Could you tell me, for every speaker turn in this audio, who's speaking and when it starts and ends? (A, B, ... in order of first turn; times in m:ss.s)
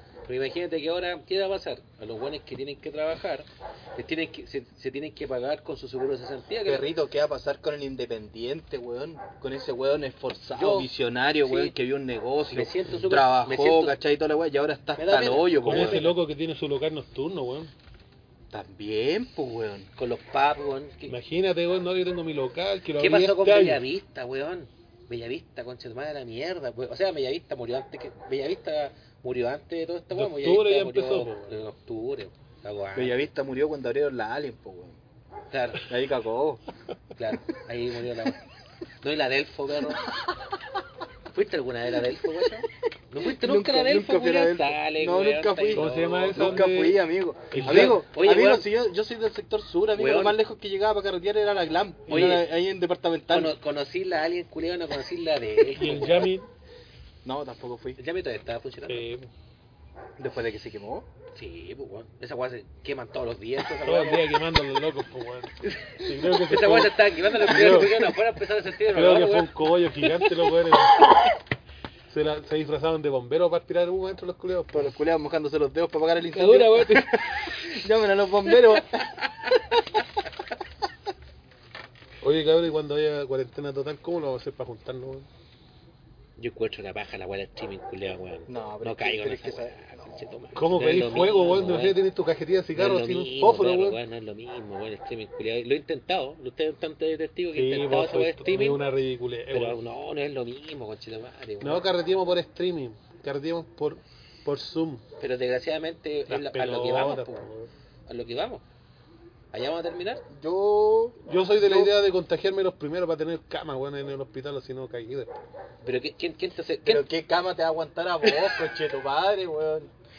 0:00.2-0:06.9 A
0:06.6-0:16.1 B
0:10.5-0:10.9 A
0:11.4-0:11.8 A
0:12.5-0:14.0 A
0:15.0-0:16.2 A
0:15.6-0:17.7 C
0:18.5-0:19.9 B
0:20.0-0:21.2 A
0:21.1-0:23.8 C
0:23.0-0:33.3 A
0:30.1-0:31.5 C
0:33.0-0:35.0 B
0:35.5-0:35.9 A
0:35.8-0:36.6 B
0:37.2-0:38.4 A
0:39.0-0:40.1 A
0:41.3-0:46.7 A
0:43.2-0:53.5 B
0:45.7-0:48.0 C
0:47.6-0:48.7 A
0:50.0-0:50.4 A
0:52.1-0:52.5 A
0:53.3-0:56.3 A
0:55.7-0:56.5 C
0:57.2-0:58.0 B
0:58.0-0:59.0 A
0:58.9-0:59.3 C
1:00.2-1:01.1 B
1:01.3-1:04.3 A
1:03.8-1:08.1 C
1:05.8-1:09.6 A
1:08.9-1:11.1 C
1:12.1-1:14.9 C
1:14.7-1:20.0 B
1:16.4-1:17.4 A
1:22.2-1:25.3 C
1:26.4-1:32.0 A
1:28.5-1:30.0 B
1:30.6-1:34.0 C
1:32.7-1:38.8 A
1:37.5-1:39.8 C
1:39.5-1:41.9 A
1:41.6-1:45.0 C
1:45.2-1:47.5 A
1:46.3-1:47.7 C
1:48.1-1:48.6 A
1:49.5-1:50.2 A
1:50.3-1:51.9 B
1:51.2-1:55.4 C
1:55.8-1:57.0 A
1:56.8-1:59.9 B